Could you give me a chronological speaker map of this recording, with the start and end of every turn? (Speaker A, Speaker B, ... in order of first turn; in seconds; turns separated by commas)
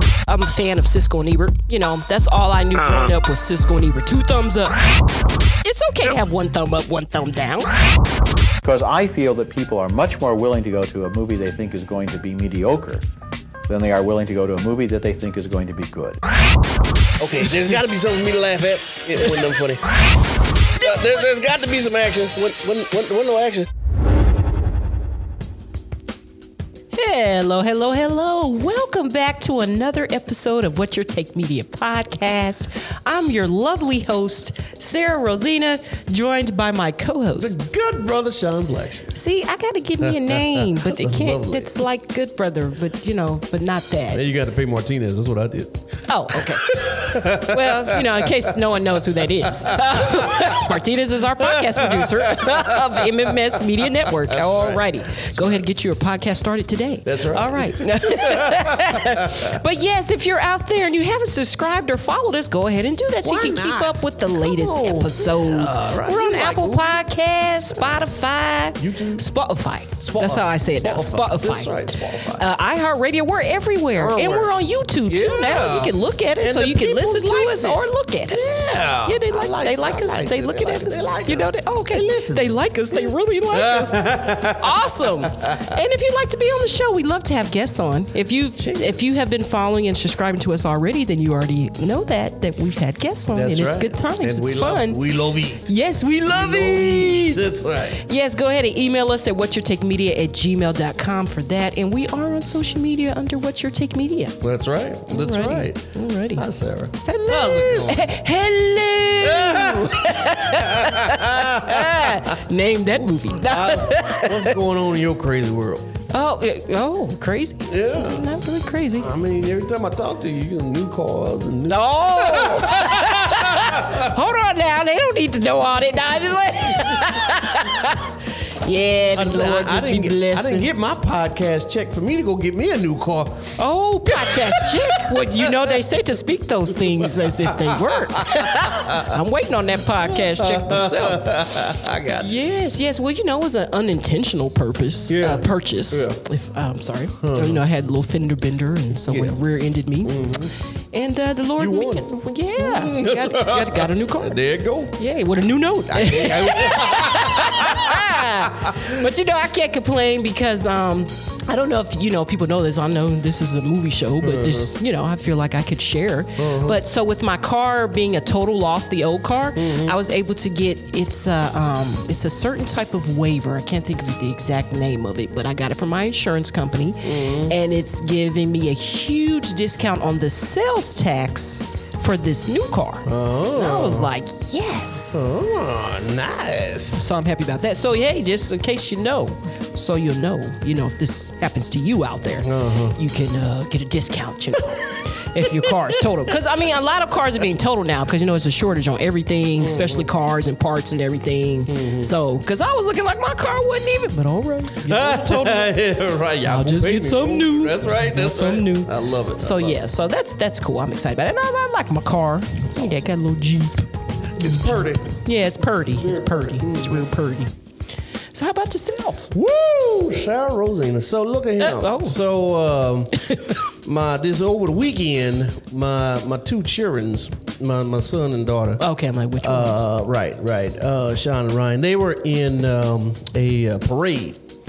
Speaker A: 0.3-4.8, Speaker A: 5.6-7.7, Speaker B: 8.6-13.1, Speaker B: 13.7-16.2, Speaker C: 17.2-19.9, Speaker C: 20.8-23.7, Speaker A: 26.9-37.6, Speaker C: 37.4-39.2, Speaker A: 39.1-44.2, Speaker C: 40.0-41.9, Speaker C: 44.1-45.8, Speaker A: 46.1-71.8, Speaker C: 46.3-48.5, Speaker C: 49.4-50.6, Speaker C: 51.4-53.3, Speaker C: 54.0-55.6, Speaker C: 57.0-59.5, Speaker C: 63.2-67.0, Speaker C: 68.8-69.3, Speaker C: 70.0-72.5, Speaker A: 72.4-95.0, Speaker C: 74.0-74.5, Speaker C: 75.1-85.8, Speaker C: 88.6-89.2, Speaker C: 93.3-95.7, Speaker A: 95.7-104.4, Speaker C: 96.3-98.0, Speaker C: 104.4-108.1, Speaker A: 105.1-106.4, Speaker A: 107.0-114.5, Speaker C: 109.2-112.4, Speaker C: 113.4-115.8, Speaker A: 116.1-119.1, Speaker C: 117.7-118.3, Speaker C: 119.0-124.1, Speaker A: 121.7-130.7, Speaker C: 129.2-135.8, Speaker A: 133.6-141.3, Speaker C: 136.9-139.1, Speaker C: 140.0-142.4, Speaker A: 142.2-150.3, Speaker C: 145.1-146.2, Speaker C: 147.2-147.6, Speaker C: 149.1-149.4, Speaker C: 150.0-150.5, Speaker A: 150.9-154.4, Speaker C: 151.6-155.0, Speaker A: 154.9-186.2, Speaker C: 155.9-159.0, Speaker C: 164.2-164.7, Speaker C: 166.4-166.8, Speaker C: 169.6-170.0, Speaker C: 177.0-177.5, Speaker C: 183.1-184.1, Speaker C: 185.1-187.1, Speaker A: 186.9-205.7, Speaker C: 192.4-193.0, Speaker C: 195.6-196.0, Speaker C: 199.6-200.1, Speaker C: 201.7-202.1, Speaker C: 204.8-209.8, Speaker A: 206.4-213.9, Speaker C: 212.7-213.1, Speaker C: 214.4-215.2, Speaker A: 214.4-217.5, Speaker C: 215.9-217.1, Speaker A: 218.3-219.3, Speaker C: 219.3-223.1, Speaker A: 221.6-222.2, Speaker A: 223.3-223.6, Speaker C: 223.8-228.8, Speaker A: 228.8-229.8, Speaker C: 229.4-234.4